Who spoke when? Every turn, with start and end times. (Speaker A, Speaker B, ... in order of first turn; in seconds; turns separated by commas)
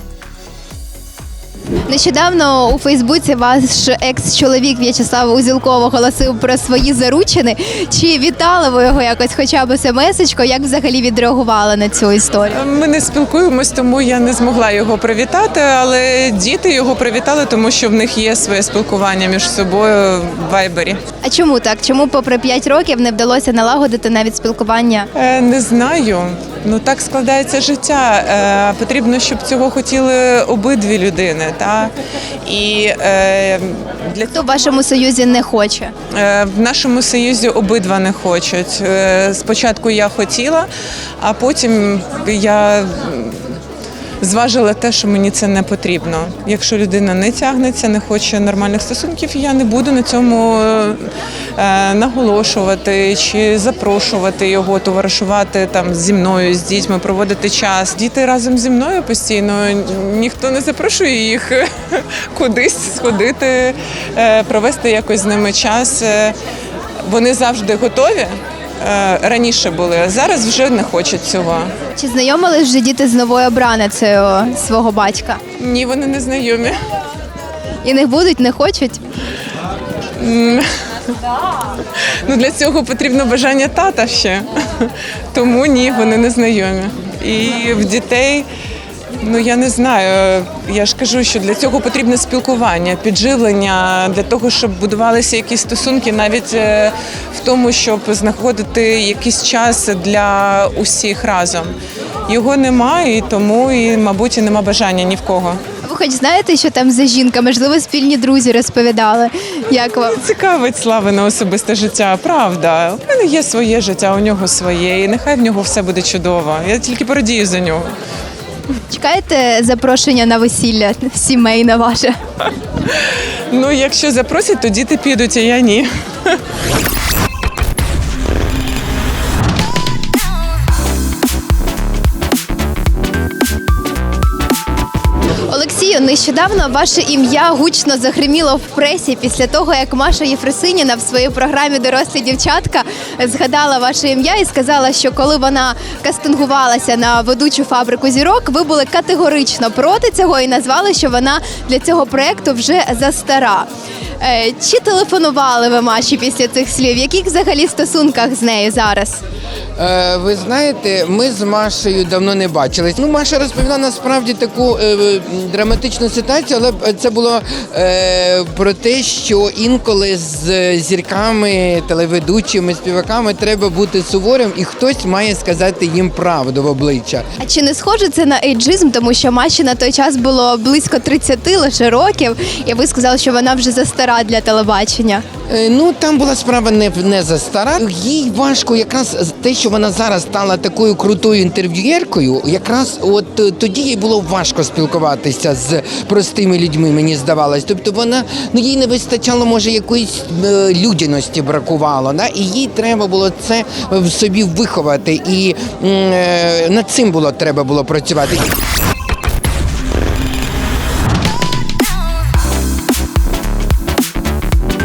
Speaker A: 1.9-12.6, Speaker B: 12.5-21.0, Speaker A: 21.2-25.1, Speaker B: 25.1-31.9, Speaker B: 32.4-34.4, Speaker A: 34.3-35.9, Speaker B: 36.1-40.7, Speaker B: 41.2-43.4, Speaker B: 44.2-51.0, Speaker B: 51.6-66.3, Speaker B: 67.0-71.7, Speaker A: 72.0-75.4, Speaker B: 75.6-76.8, Speaker A: 77.8-79.0, Speaker B: 80.2-80.6, Speaker B: 82.2-88.5, Speaker B: 89.2-101.7, Speaker B: 102.3-105.6, Speaker A: 105.8-110.2, Speaker B: 110.1-117.9, Speaker A: 118.9-122.1, Speaker B: 123.5-126.3, Speaker A: 135.5-153.7, Speaker A: 154.2-159.2, Speaker C: 159.8-177.2, Speaker A: 177.4-185.2, Speaker C: 185.5-208.4